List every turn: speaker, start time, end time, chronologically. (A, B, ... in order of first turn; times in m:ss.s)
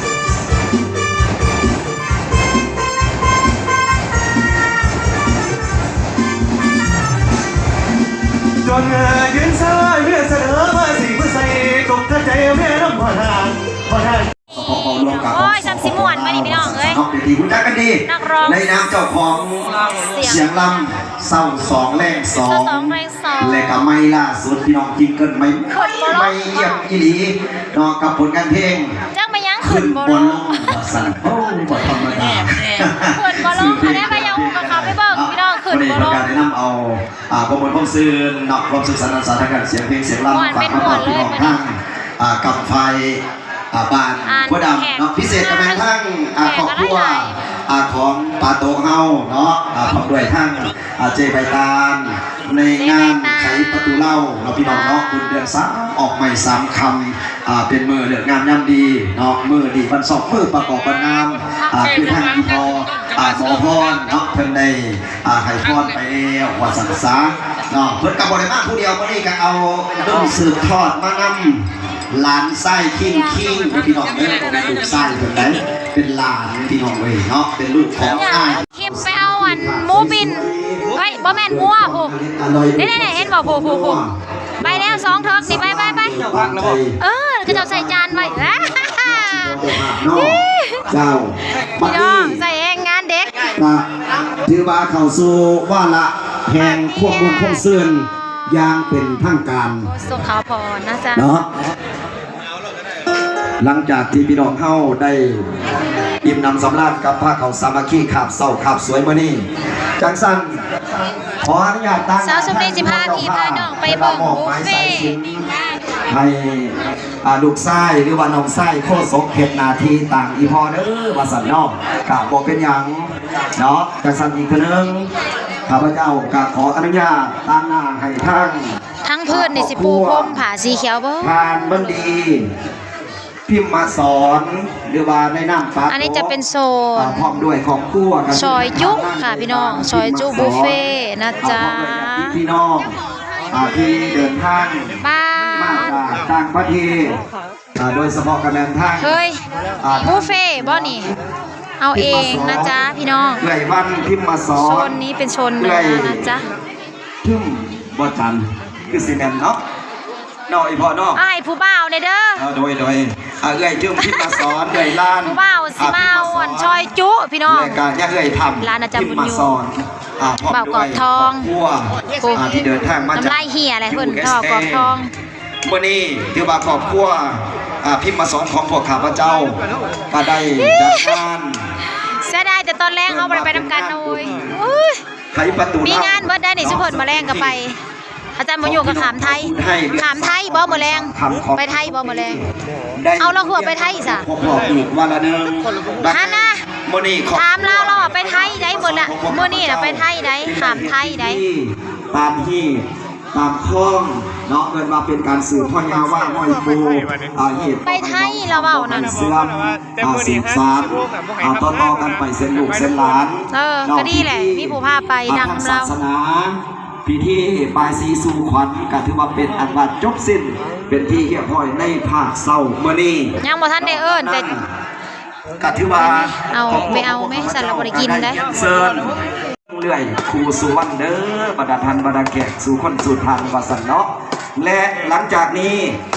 0:08.6-0:14.3 A
0:14.5-0:29.0 B
0:14.6-0:17.0 C
0:18.1-0:18.8 C
0:19.9-0:20.6 C
0:22.3-0:23.8 C
0:25.7-0:26.9 C
0:29.1-0:30.9 C
0:29.6-1:32.4 B
0:33.1-0:36.2 C
0:40.3-0:41.6 C
0:44.2-0:47.4 C
0:52.7-0:53.8 C
0:54.6-0:55.0 C
1:18.0-1:22.2 C
1:22.8-1:24.0 C
1:24.6-1:26.2 C
1:26.3-1:26.6 A
1:27.0-1:30.9 C
1:31.8-1:33.5 C
1:33.5-1:33.9 B
1:34.4-1:39.9 B
1:36.6-1:37.7 C
1:39.8-1:41.4 C
1:41.2-1:41.5 B
1:43.6-1:45.6 B
1:46.2-1:49.5 B
1:50.0-1:50.6 B
1:51.3-1:55.5 B
1:52.2-1:55.1 C
1:56.1-2:05.1 B
2:05.7-2:08.8 B
2:09.0-2:11.3 C
2:09.3-2:10.4 B
2:11.2-2:12.5 B
2:13.5-2:16.3 B
2:15.9-2:17.3 C
2:17.0-2:20.8 B
2:18.3-2:22.4 C
2:21.4-2:23.0 B
2:23.5-2:25.0 B
2:25.0-2:26.0 C
2:25.5-2:27.2 B
2:27.8-2:29.2 B
2:29.0-2:29.4 C
2:29.8-2:31.0 B
2:30.0-2:31.1 C
2:31.8-2:33.4 C
2:31.9-2:32.8 B
2:33.4-2:35.0 B
2:34.6-2:36.4 C
2:35.6-2:36.4 B
2:37.2-2:39.6 B
2:40.5-2:41.2 B
2:41.2-2:42.5 C
2:42.4-2:46.8 B
2:44.0-2:47.8 C
2:47.5-2:55.0 B
2:48.6-2:49.6 C
2:50.5-2:51.5 C
2:52.2-2:52.5 C
2:53.1-2:55.1 C
2:55.6-2:59.6 B
3:00.1-3:01.7 B
3:00.6-3:01.2 C
3:02.1-3:05.0 C
3:03.1-3:04.6 B
3:05.3-3:07.7 B
3:05.8-3:07.8 C
3:08.4-3:12.5 C
3:08.6-3:12.4 B
3:13.0-3:44.7 B
3:13.2-3:14.3 C
3:16.1-3:16.6 C
3:17.3-3:21.4 C
3:27.8-3:29.2 C
3:33.5-3:36.0 C
3:43.4-3:44.5 C
3:45.6-3:49.2 B
3:45.9-3:48.4 C
3:49.7-3:56.0 B